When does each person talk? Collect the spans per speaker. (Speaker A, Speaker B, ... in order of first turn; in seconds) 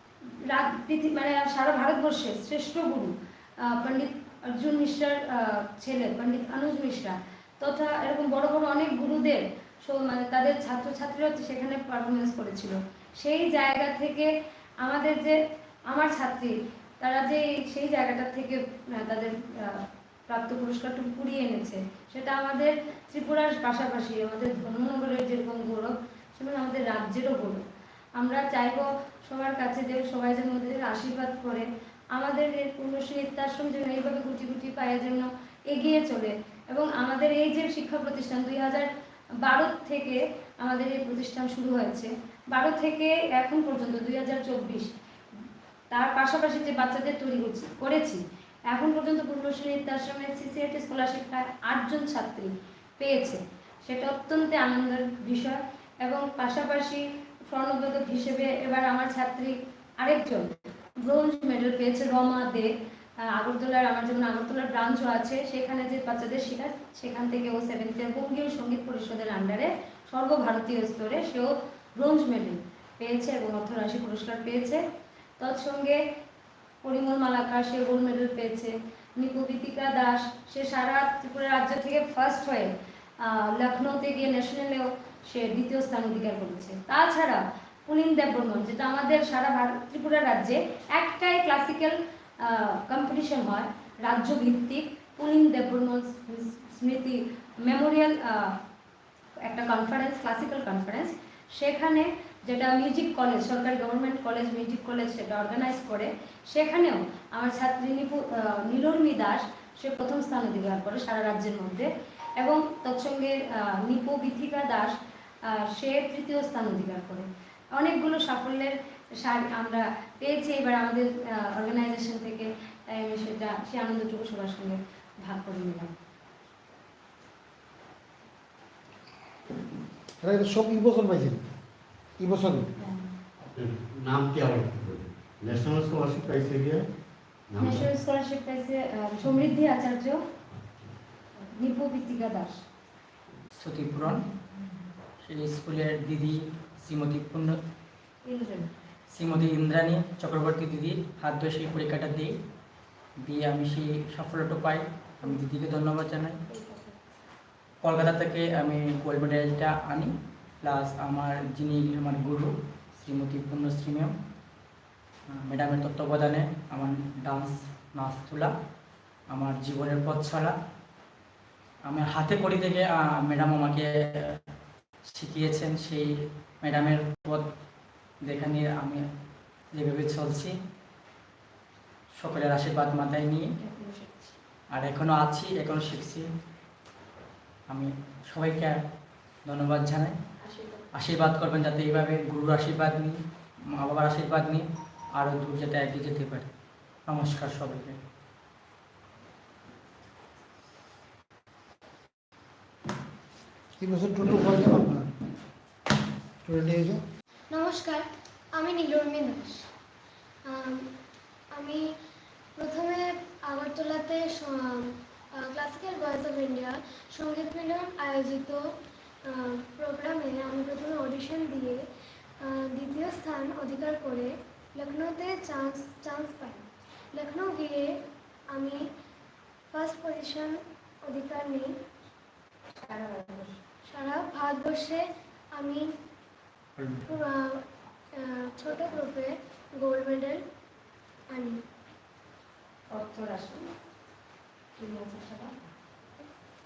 Speaker A: 0.4-14.3, 14.8-27.6, 28.2-38.9, 39.4-44.9, 45.9-62.7, 63.3-74.8, 75.4-76.0, 76.8-98.6, 99.4-114.9, 115.5-125.9, 137.6-140.2, 141.4-142.6, 148.2-148.7, 156.5-156.9, 183.6-184.3, 190.4-190.8, 232.8-233.6, 242.9-243.7, 244.8-245.6
Speaker B: 130.2-131.4, 132.2-132.7, 203.8-205.1, 206.4-207.0
Speaker C: 133.4-136.8, 137.5-137.9
Speaker D: 143.6-144.2, 145.2-147.6, 149.1-152.3, 153.2-156.4, 157.8-164.1, 165.3-168.5, 169.3-170.6, 171.8-174.4, 175.1-177.5, 178.2-179.0, 179.7-180.6, 182.2-183.5, 184.7-186.3, 187.7-188.8, 189.4-190.2, 190.9-196.5, 197.1-198.0, 236.8-237.1
Speaker E: 207.5-209.7, 210.4-210.9, 211.5-211.9, 212.6-221.8, 222.4-228.9, 229.7-231.7, 233.9-235.9, 237.1-240.4, 241.3-241.6